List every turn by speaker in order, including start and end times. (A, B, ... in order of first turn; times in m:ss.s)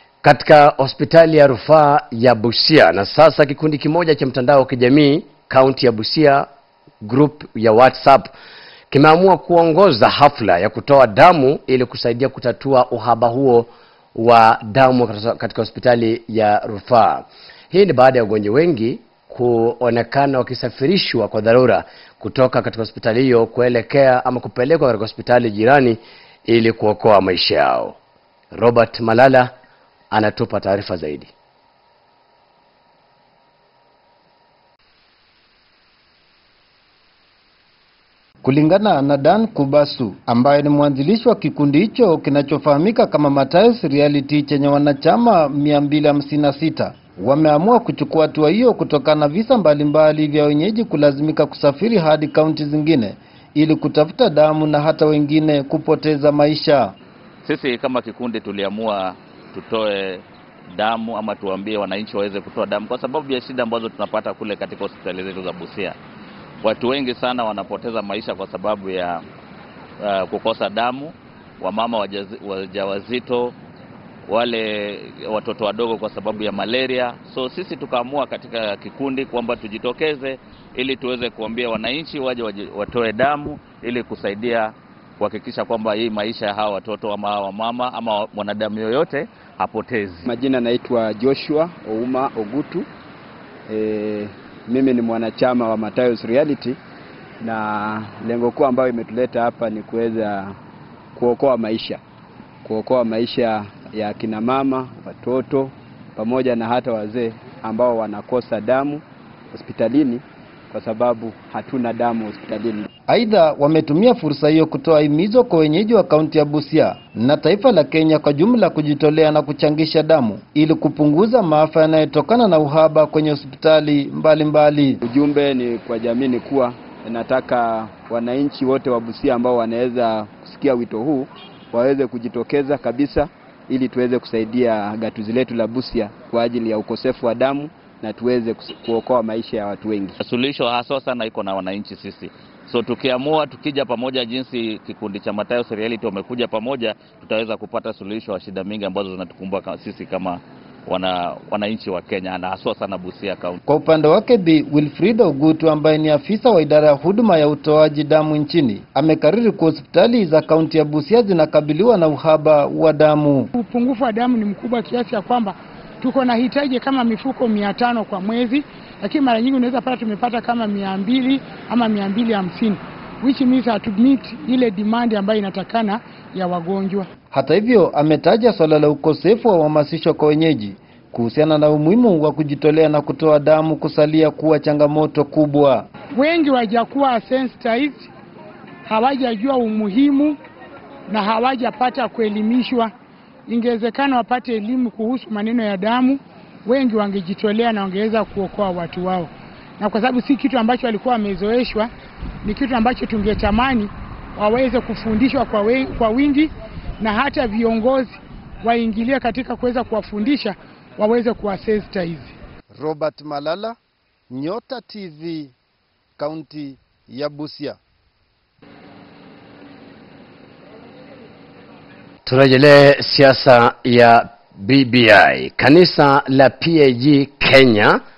0:00.2-0:06.4 A
0:07.0-0:08.3 A
0:08.9-0:28.0 A
0:28.5-0:29.5 A
0:30.1-0:31.3 A
0:38.4-0:56.9 B
0:57.4-1:06.0 C
1:06.6-1:09.2 C
1:10.0-1:13.5 C
1:14.3-1:30.2 C
1:30.2-1:32.9 D
1:33.7-1:36.8 D
1:37.4-1:40.5 D
1:41.1-1:42.0 D
1:42.6-1:52.9 D
1:53.1-2:05.0 B
2:05.0-2:20.1 D
2:20.2-2:33.6 C
2:33.7-2:43.5 B
2:43.5-2:57.1 E
2:57.3-3:05.9 B
3:06.1-3:08.1 E
3:08.8-3:10.4 E
3:11.1-3:12.9 E
3:13.5-3:21.9 E
3:22.4-3:32.3 E
3:32.8-3:33.8 B
3:34.3-3:35.5 B
3:36.2-3:37.8 B
3:42.2-3:48.0 A